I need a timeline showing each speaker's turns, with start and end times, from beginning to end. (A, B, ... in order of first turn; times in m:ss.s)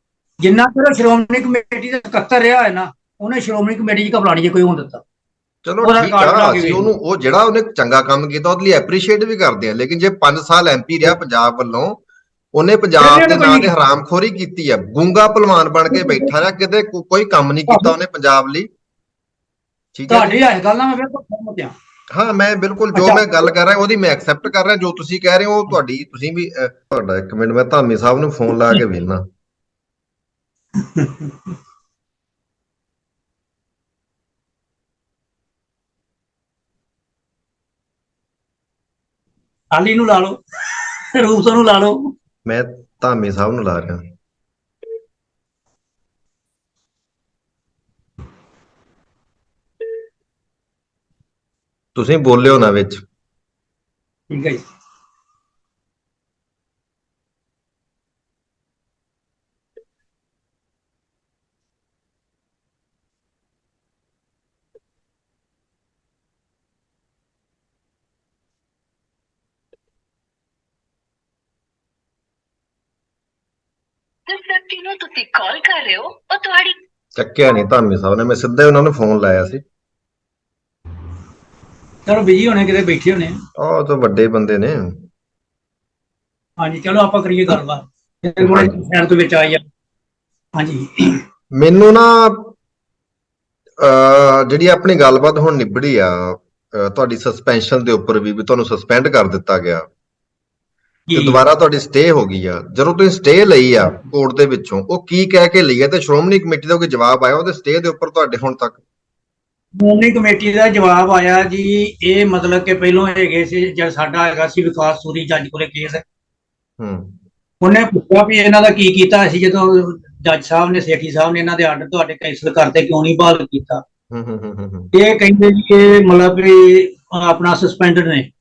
0:00.4-0:05.0 A
0:05.6-0:12.0 B
0:05.8-0:06.8 A
0:12.5-0:18.7 B
0:13.0-0:13.7 A
0:15.9-0:16.4 A
0:19.9-0:20.4 B
0:20.1-0:21.7 A
0:22.1-0:29.3 B
0:22.9-0:23.4 A
0:30.8-0:31.4 A
0:39.7-0:40.4 A
0:41.1-0:42.1 A
0:42.4-0:44.0 B
0:51.9-0:53.0 B
0:54.3-0:54.6 A
1:14.3-1:16.8 C
1:17.2-1:19.6 B
1:22.0-1:23.4 A
1:23.6-1:25.0 B
1:26.6-1:29.6 A
1:28.4-1:28.7 B
1:30.6-1:31.2 A
1:31.5-1:32.5 B
1:33.8-1:39.8 B
1:41.1-1:41.4 A
1:41.1-1:48.8 B
1:49.8-1:56.0 A
1:56.8-1:57.2 B
1:57.6-2:03.8 A
2:04.1-2:04.9 B
2:04.9-2:08.3 A